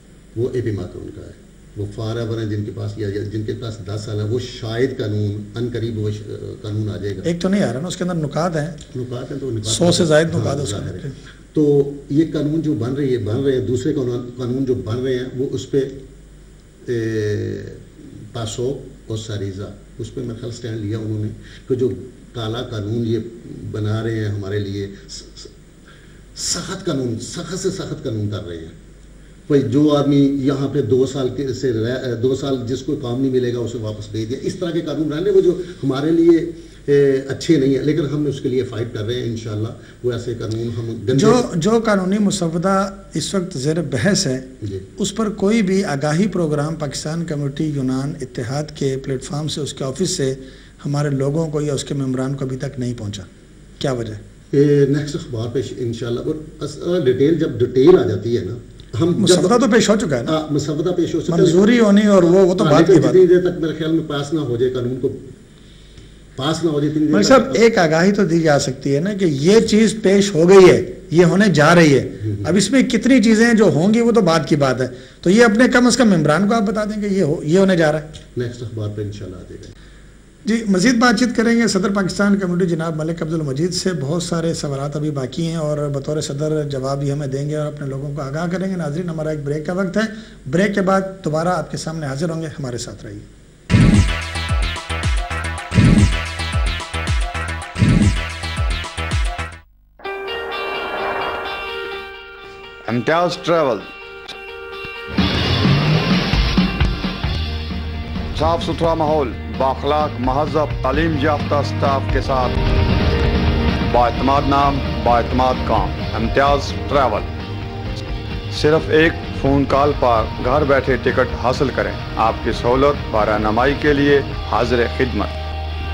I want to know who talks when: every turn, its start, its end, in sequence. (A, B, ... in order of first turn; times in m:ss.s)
0:00.3-0:07.3 A
0:07.2-0:08.8 B
0:08.9-0:16.0 A
0:09.6-0:11.1 B
0:16.8-0:25.5 A
0:26.4-0:28.7 A
0:29.5-0:41.4 A
0:41.1-0:53.3 B
0:44.6-0:44.9 A
0:53.8-0:54.2 B
0:54.5-0:59.6 A
0:59.2-1:00.4 B
1:00.2-1:01.7 A
1:01.3-1:03.2 B
1:02.6-1:05.3 A
1:06.4-1:07.6 A
1:07.1-1:18.1 B
1:12.2-1:12.5 A
1:18.3-1:19.7 A
1:20.4-1:33.3 B
1:42.8-1:43.9 C
1:48.3-1:52.6 C
1:53.8-1:57.3 C
1:58.5-2:05.3 C